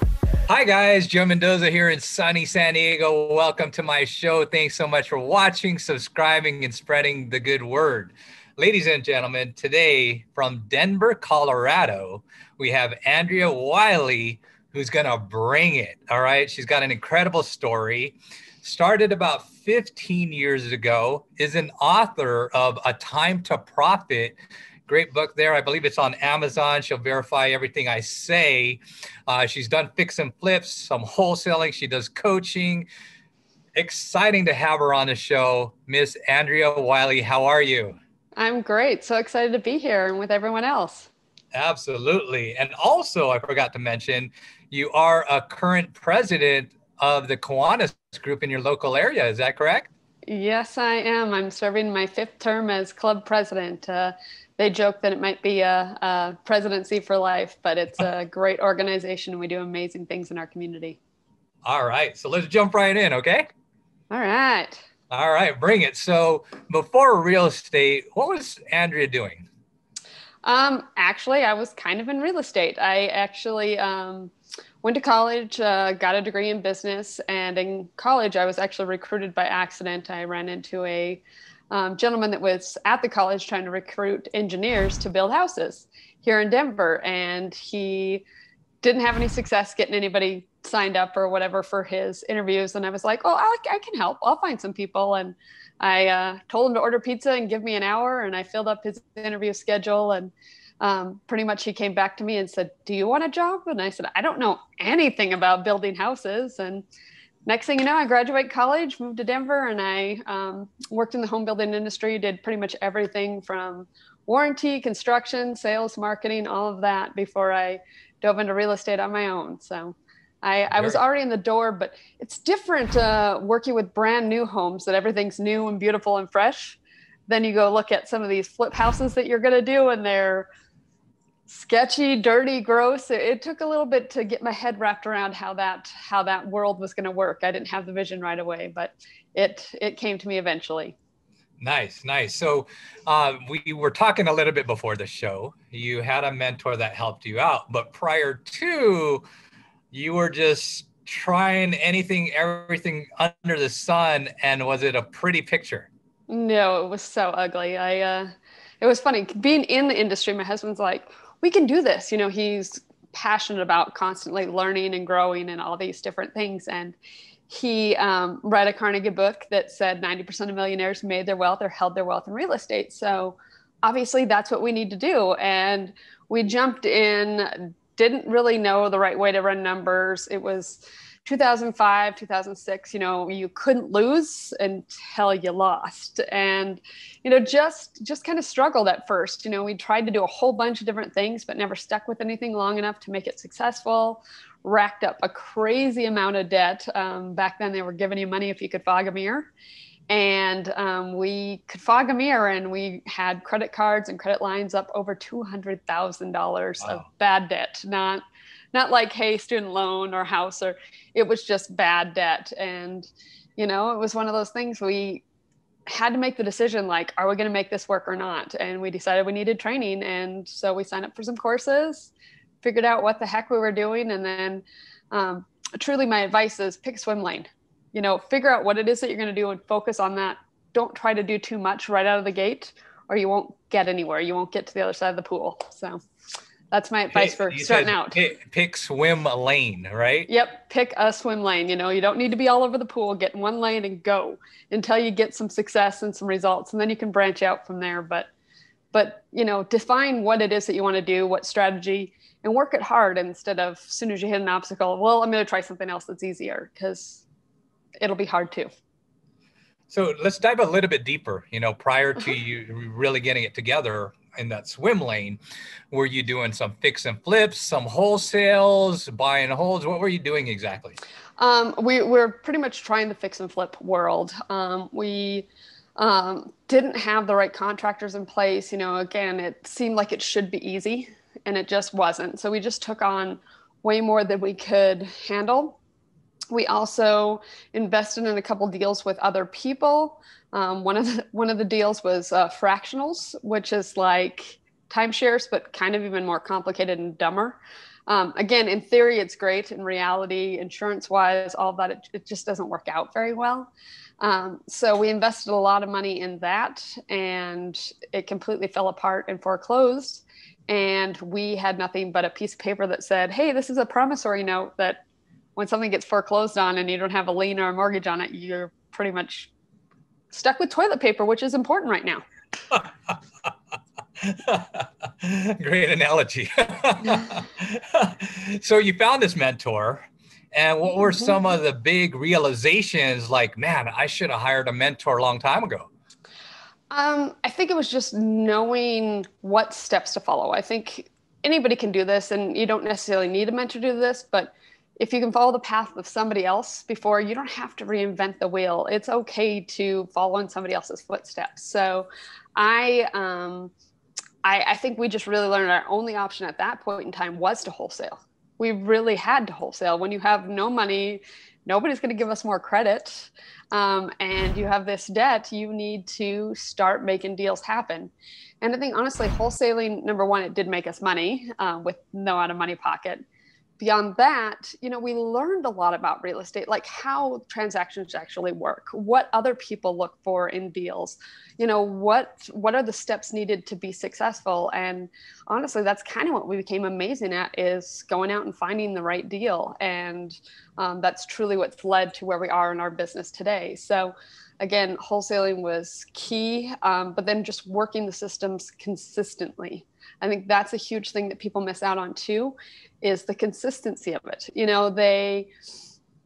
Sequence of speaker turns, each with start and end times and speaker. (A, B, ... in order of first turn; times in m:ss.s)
0:00.5-0:32.9 A
0:33.8-0:38.0 A
0:38.4-0:41.1 B
0:41.6-0:49.9 A
0:50.3-1:01.0 B
1:01.6-1:03.5 A
1:04.1-1:04.8 B
1:05.1-1:09.5 A
1:10.4-1:14.3 B
1:14.8-1:28.2 B
1:28.8-1:46.8 B
1:47.5-2:10.5 B
2:00.7-2:01.0 A
2:11.5-2:21.0 B
2:21.6-2:29.2 A
2:29.9-2:35.9 A
2:36.3-2:47.0 B
2:47.5-3:19.5 B
3:20.1-3:28.2 B
3:28.7-3:35.2 B
3:35.9-3:42.1 B
3:42.6-3:56.0 B
3:56.7-3:58.2 B
3:57.1-4:00.3 A
4:00.3-4:08.3 B
4:08.9-4:17.2 B
4:18.0-4:18.7 B
4:19.9-4:25.4 A
4:25.9-4:31.0 A
4:31.4-4:45.8 B
4:46.5-4:57.6 B
4:58.1-5:15.0 B
5:15.6-5:19.5 B
5:20.3-5:22.2 B
5:22.7-5:23.5 A
5:24.2-5:35.9 A
5:31.0-5:31.3 B
5:36.9-5:53.7 B
5:54.4-6:13.2 B
6:13.8-6:45.5 B